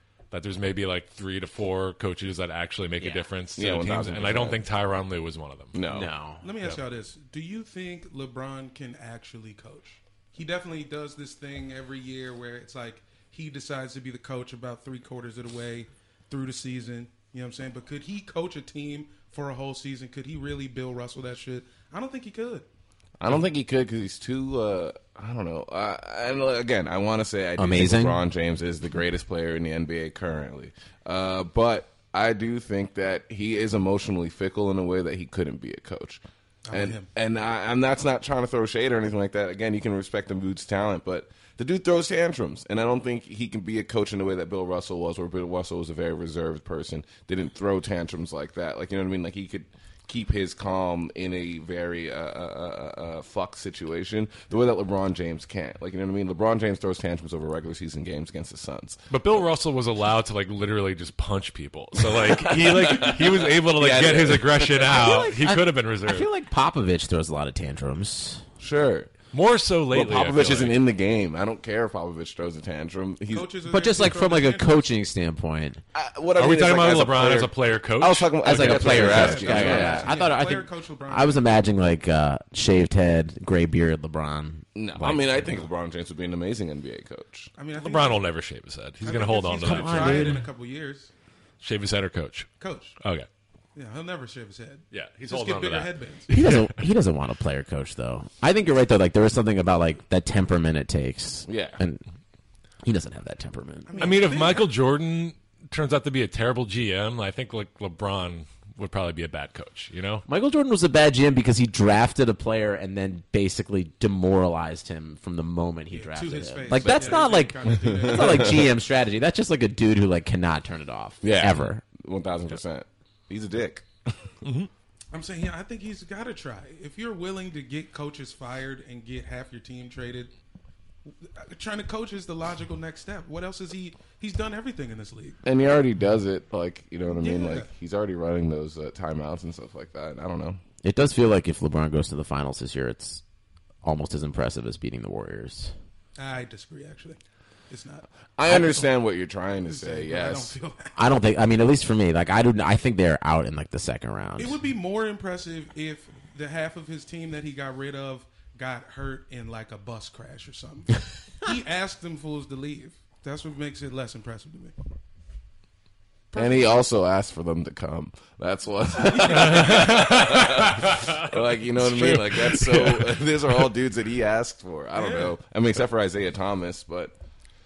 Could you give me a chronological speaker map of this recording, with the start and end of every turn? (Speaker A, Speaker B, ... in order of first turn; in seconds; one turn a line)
Speaker A: 0.3-5.7
Speaker B: 3.0-3.2
Speaker C: 3.6-4.6
Speaker C: 5.7-6.1
Speaker B: 5.9-6.4
Speaker D: 6.4-22.7
Speaker C: 23.2-59.0
Speaker B: 27.6-28.2
Speaker D: 36.6-37.1
Speaker A: 59.1-66.3
Speaker C: 62.1-65.0
Speaker B: 64.9-68.4
Speaker C: 68.6-69.1
Speaker A: 69.3-70.8
Speaker C: 69.9-73.5
Speaker D: 73.3-74.8
Speaker B: 73.6-75.8
Speaker C: 75.9-80.1
Speaker A: 76.3-80.0
Speaker B: 78.4-85.5
Speaker D: 78.8-81.5
Speaker C: 84.7-87.5
Speaker D: 87.5-88.2
Speaker A: 87.8-90.5
Speaker D: 89.0-91.1
Speaker B: 89.6-90.4
Speaker A: 91.6-92.5
Speaker D: 92.6-93.0
Speaker A: 93.0-93.3
Speaker D: 93.7-96.3
Speaker A: 94.9-96.8
Speaker B: 96.3-102.0
Speaker C: 101.5-101.8
Speaker B: 102.8-104.0
Speaker D: 103.9-104.7
Speaker A: 104.0-110.2
Speaker B: 110.3-121.8
Speaker D: 115.9-118.7
Speaker C: 116.8-118.7
Speaker C: 121.2-124.3
Speaker A: 124.4-124.7
Speaker D: 125.1-130.3
Speaker D: 131.2-135.4
Speaker C: 135.4-140.6
Speaker D: 137.1-137.7
Speaker B: 140.8-143.2
Speaker B: 143.8-145.7
Speaker D: 146.2-148.9
Speaker C: 148.4-150.5
Speaker D: 149.7-150.9
Speaker B: 150.9-154.5
Speaker D: 154.4-164.7
Speaker D: 166.3-166.8
Speaker C: 166.3-177.1
Speaker D: 169.1-169.9
Speaker A: 169.3-173.7
Speaker D: 174.9-175.3